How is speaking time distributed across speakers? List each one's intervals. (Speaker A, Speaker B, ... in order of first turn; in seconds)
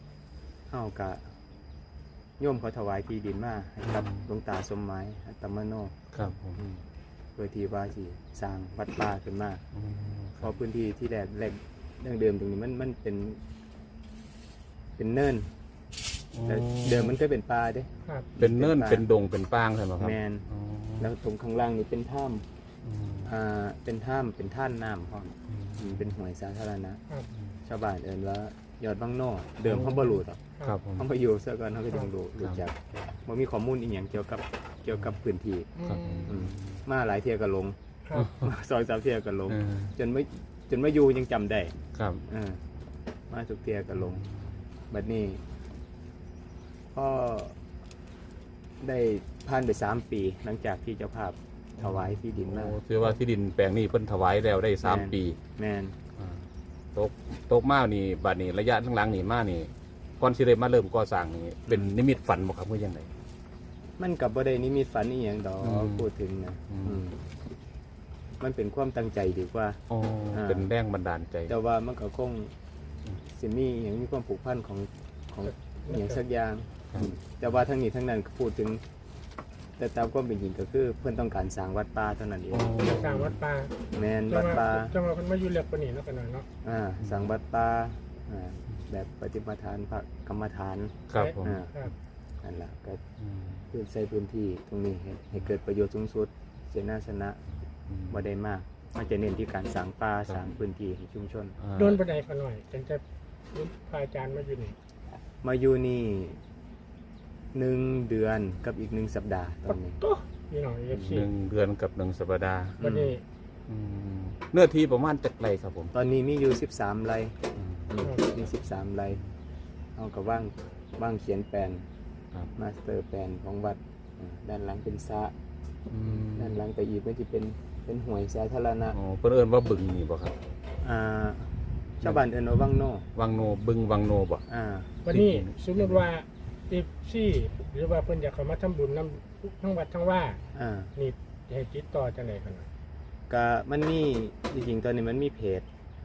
Speaker A: 0.7-1.4, 2.4-6.0, 6.6-6.8, 7.4-9.6, 10.4-13.4, 15.0-15.5, 16.4-19.1, 20.0-20.5, 21.0-22.5, 23.2-27.0, 27.6-30.4, 31.0-35.7, 36.3-41.8, 42.3-42.6, 43.3-44.3, 44.9-45.4, 46.9-47.6, 48.8-52.8, 54.8-56.0, 61.7-61.9, 64.0-67.2, 68.4-69.8, 70.3-70.7, 71.5-72.5, 73.2-78.8, 79.8-82.8, 83.9-84.9, 86.6-91.7, 92.4-93.0, 93.7-97.4, 98.1-101.6, 105.4-106.4, 107.5-110.0, 112.8-113.2, 115.9-117.4, 117.9-119.2, 120.0-121.8, 122.5-125.3, 126.3-129.0, 130.8-133.1, 134.5-135.0, 140.6-140.9, 143.3-145.7
Speaker B: 3.8-4.3, 6.1-6.6, 9.7-10.5, 16.3-17.1, 18.4-21.1, 22.8-23.3, 25.5-26.0, 29.7-31.1, 35.8-36.8, 38.1-38.5, 39.5-39.9, 41.9-42.2, 51.8-55.4, 56.2-56.4, 57.0-63.1, 65.6-66.1, 66.7-67.0, 69.9-71.5, 82.5-83.4, 87.0-87.3, 91.1-91.6, 93.2-93.6, 97.9-98.2, 101.6-102.0, 111.0-112.8, 113.7-115.9, 117.6-117.9, 125.9-126.6, 128.9-130.3, 133.2-134.4, 135.1-136.1
Speaker C: 35.8-36.3, 38.1-38.3, 75.9-76.2, 82.8-86.5, 91.2-91.9, 101.8-104.8, 109.7-111.3, 112.8-113.2, 118.0-118.3, 135.1-140.4, 141.0-142.7